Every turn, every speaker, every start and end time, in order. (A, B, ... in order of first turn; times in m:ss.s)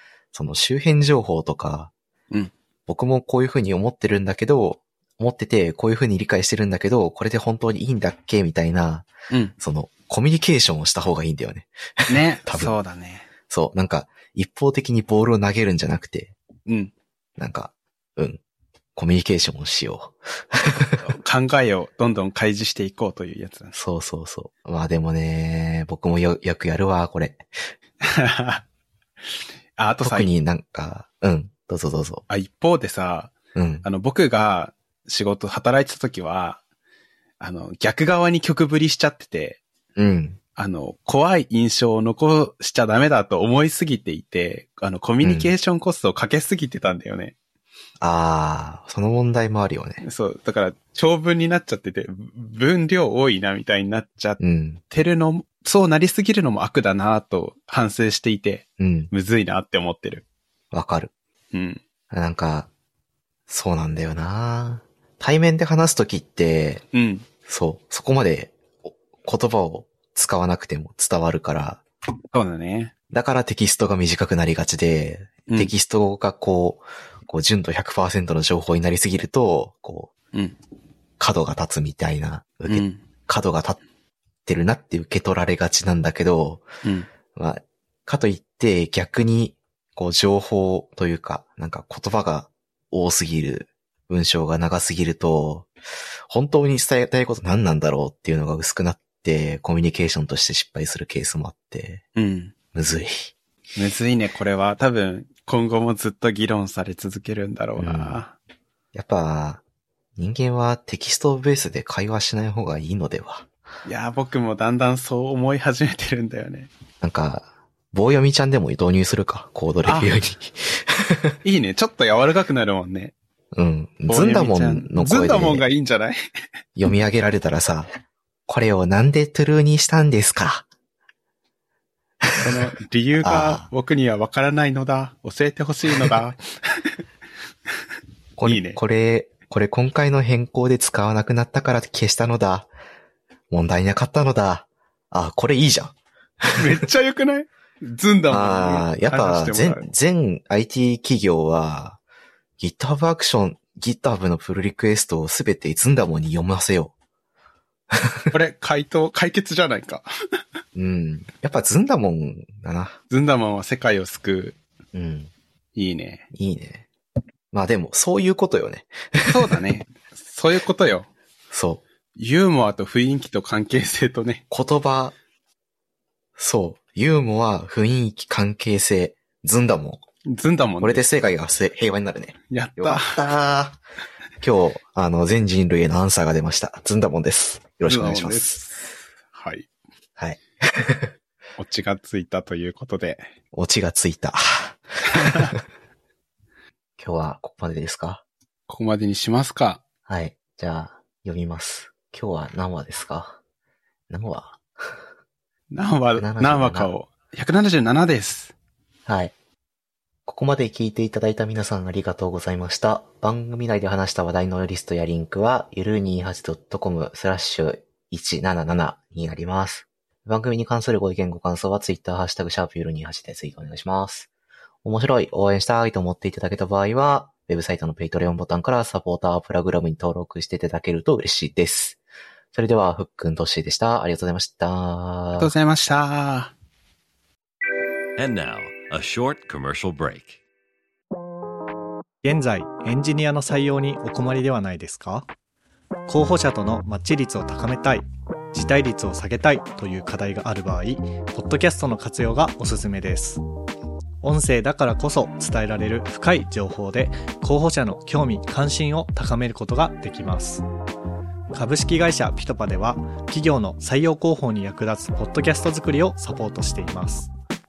0:00.3-0:01.9 A
0:02.9-0:12.7 A
0:12.1-0:13.3 B
0:13.5-0:16.4 A
0:16.7-0:16.9 B
0:17.4-0:18.4 A
0:19.0-0:21.1 A
0:21.0-0:23.8 B
0:23.7-0:27.4 A
0:28.0-0:28.6 B
0:29.8-0:30.3 B
0:30.0-0:32.2 A
0:32.3-0:36.6 B
0:33.6-0:33.9 A
0:37.4-0:39.6 B
0:40.0-0:40.4 A
0:40.6-0:47.4 B
0:45.2-0:45.5 A
0:48.0-0:50.0 A
0:50.0-1:00.2 B
0:54.4-0:54.8 A
0:58.8-0:59.1 A
1:00.7-1:01.1 A
1:01.5-1:01.8 B
1:02.1-1:02.7 A
1:03.5-1:06.8 A
1:06.9-1:07.3 B
1:07.5-1:11.8 A
1:12.3-1:12.9 B
1:13.1-1:20.1 A
1:15.5-1:15.7 B
1:21.2-1:23.8 A
1:22.7-1:23.0 B
1:24.5-1:26.7 A
1:26.8-1:27.1 B
1:27.4-1:35.7 A
1:36.3-1:42.0 A
1:42.2-1:42.5 B
1:42.7-1:43.3 A
1:43.8-1:48.3 B
1:47.8-1:48.2 A
1:48.9-1:49.6 A
1:50.2-1:53.5 A
1:53.9-1:56.7 B
1:57.0-2:01.4 A
1:59.8-2:00.1 B
2:01.4-2:03.1 B
2:03.5-2:05.7 A
2:04.1-2:06.2 B
2:06.8-2:07.9 A
2:08.5-2:10.7 A
2:12.3-2:12.6 A
2:12.4-2:16.8 B
2:13.2-2:13.7 A
2:18.4-2:22.7 A
2:18.4-2:18.8 B
2:23.5-2:26.6 A
2:26.5-2:29.9 B
2:28.3-2:32.0 A
2:32.6-2:36.9 A
2:37.9-2:38.2 A
2:38.3-2:40.1 B
2:40.8-2:43.0 A
2:43.1-2:44.6 B
2:44.9-2:45.3 A
2:45.8-2:46.2 B
2:46.3-2:46.9 A
2:47.5-2:49.4 A
2:49.3-2:51.1 B
2:51.5-2:51.8 A
2:52.2-2:54.4 B
2:54.5-2:55.2 A
2:56.4-3:00.0 A
3:00.3-3:01.0 B
3:00.8-3:03.8 A
3:02.5-3:03.2 B
3:04.4-3:08.6 A
3:07.8-3:09.7 B
3:10.2-3:11.1 A
3:11.6-3:13.3 B
3:13.5-3:15.6 A
3:15.2-3:15.5 B
3:17.0-3:18.2 A
3:18.7-3:19.8 B
3:20.1-3:23.4 A
3:24.1-3:25.0 A
3:25.7-3:28.5 B
3:26.2-3:26.9 A
3:29.1-3:29.3 A
3:30.3-3:44.3 A
3:44.8-3:52.0 A
3:52.5-3:55.5 A
3:55.4-3:56.5 B
3:58.2-4:00.4 C
4:02.2-4:05.3 D
4:06.1-4:13.4 D
4:14.2-4:20.6 D
4:21.5-4:27.3 D